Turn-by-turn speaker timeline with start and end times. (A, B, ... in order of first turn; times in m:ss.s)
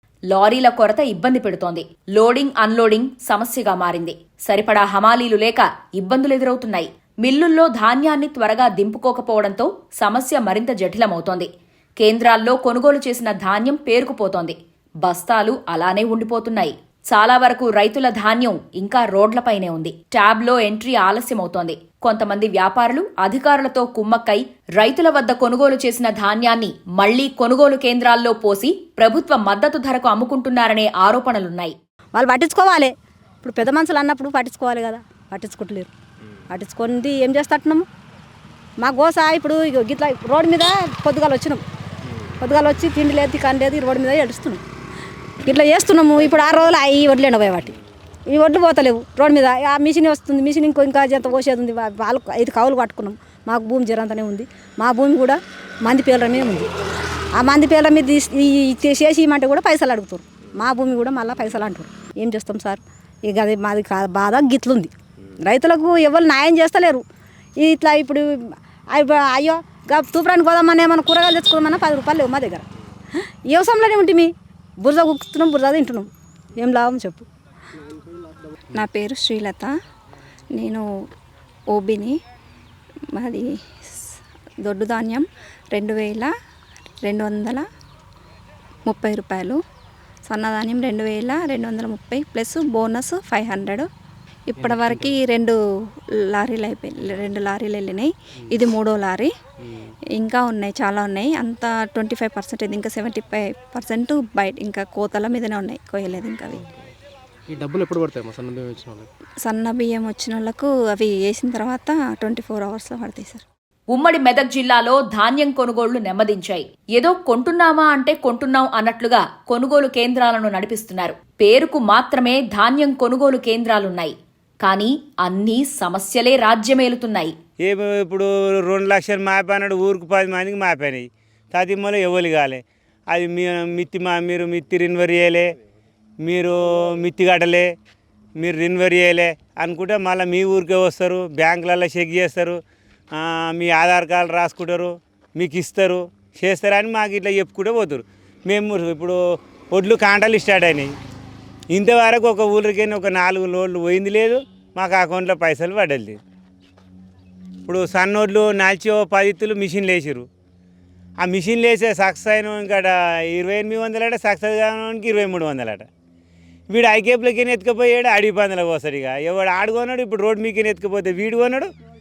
0:00.3-0:11.5 A
0:12.0-0:31.8 A
0:32.1-0:35.9 B
0:36.5-0:37.9 B
0:38.8-0:41.6 B
0:42.4-0:44.6 B
0:45.4-0:47.8 B
0:48.3-0:56.7 B
0:57.4-1:04.9 B
1:05.4-1:07.0 B
1:07.6-1:08.3 B
1:08.9-1:12.6 B
1:13.5-1:17.2 B
1:18.7-1:19.7 C
1:20.5-1:20.9 C
1:21.7-1:22.2 C
1:23.1-1:24.0 C
1:24.6-1:26.3 C
1:27.0-1:27.6 C
1:28.9-1:29.6 C
1:30.3-1:33.9 C
1:34.5-1:35.6 C
1:34.6-1:35.1 D
1:36.2-1:39.3 C
1:40.2-1:46.7 C
1:47.5-1:49.1 D
1:49.4-1:53.4 C
1:53.9-2:07.4 A
2:07.6-2:15.5 E
2:16.2-2:17.7 E
2:18.4-2:22.6 E
2:23.1-2:29.2 E
2:29.7-2:30.9 E
2:31.7-2:36.2 E
2:37.7-2:40.3 E
2:41.2-2:45.9 E
2:46.7-2:51.7 E